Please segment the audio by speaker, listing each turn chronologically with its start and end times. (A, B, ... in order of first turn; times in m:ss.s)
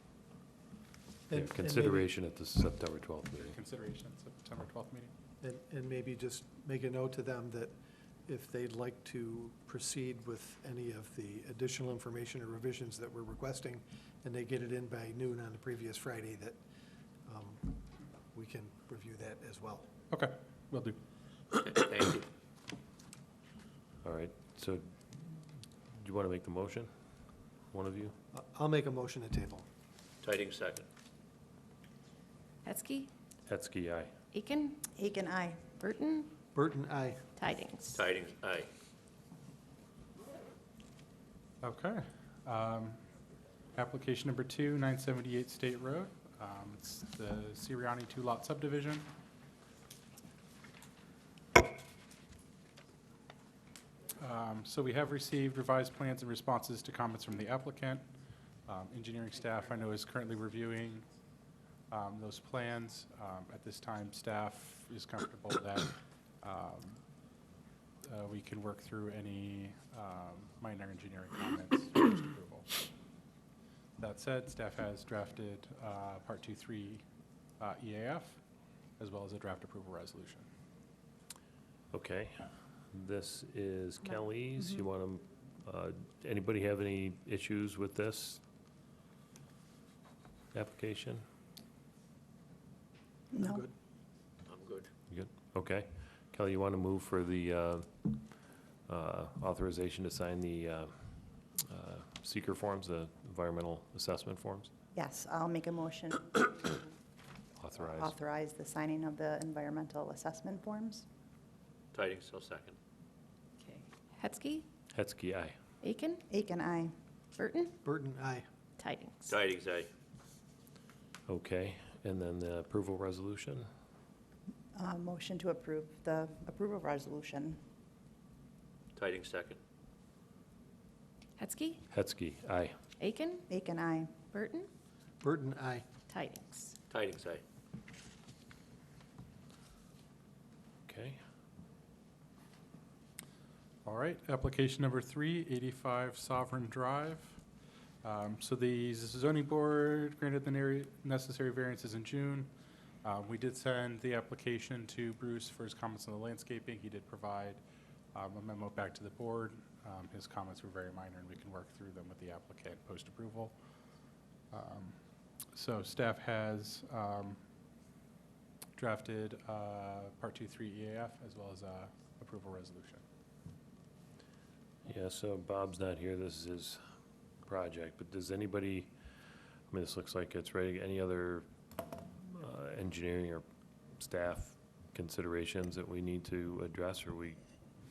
0:01.3-0:02.1 A
0:01.3-0:03.6 B
0:03.5-0:05.1 C
0:05.4-0:07.7 A
0:08.3-0:16.6 A
0:17.2-0:17.8 A
0:18.3-0:19.8 A
0:20.1-0:21.0 C
0:21.6-0:22.3 D
0:24.0-0:28.1 B
0:28.3-0:29.7 A
0:30.2-0:30.8 D
0:32.6-0:33.1 E
0:33.4-0:34.1 B
0:34.3-0:34.8 E
0:35.0-0:35.7 F
0:35.8-0:36.3 E
0:36.5-0:37.2 A
0:37.4-0:38.0 E
0:37.9-0:38.7 D
0:41.6-0:43.0 C
0:43.8-0:49.1 C
0:54.2-0:58.0 C
0:58.7-1:01.1 C
1:01.9-1:07.0 C
1:08.0-1:12.7 C
1:14.0-1:17.0 C
1:17.6-1:18.4 C
1:19.0-1:20.4 C
1:21.9-1:28.4 B
1:30.5-1:31.2 B
1:33.3-1:33.6 F
1:33.4-1:33.7 A
1:34.4-1:34.9 D
1:35.1-1:44.7 B
1:44.9-1:46.9 F
1:47.6-1:48.1 B
1:47.9-1:51.0 F
1:51.9-1:52.8 D
1:53.7-1:54.7 E
1:54.9-1:55.6 B
1:55.8-1:56.2 E
1:56.3-1:56.9 F
1:57.4-1:57.8 E
1:57.8-1:58.4 A
1:58.8-1:59.4 E
1:59.3-1:59.9 D
2:01.3-2:03.7 B
2:04.8-2:07.6 F
2:08.9-2:09.6 D
2:11.4-2:11.8 E
2:11.9-2:12.8 B
2:13.0-2:13.5 E
2:13.5-2:14.1 F
2:14.3-2:14.7 E
2:15.2-2:15.8 A
2:16.1-2:16.8 E
2:16.9-2:17.4 D
2:20.9-2:21.2 B
2:23.8-2:27.4 C
2:28.0-2:32.5 C
2:33.0-2:37.6 C
2:38.1-2:43.6 C
2:44.5-2:45.0 C
2:45.5-2:47.4 C
2:48.8-2:53.0 C
2:54.8-2:56.8 B
2:57.4-2:58.9 B
2:59.7-3:03.4 B
3:04.0-3:07.4 B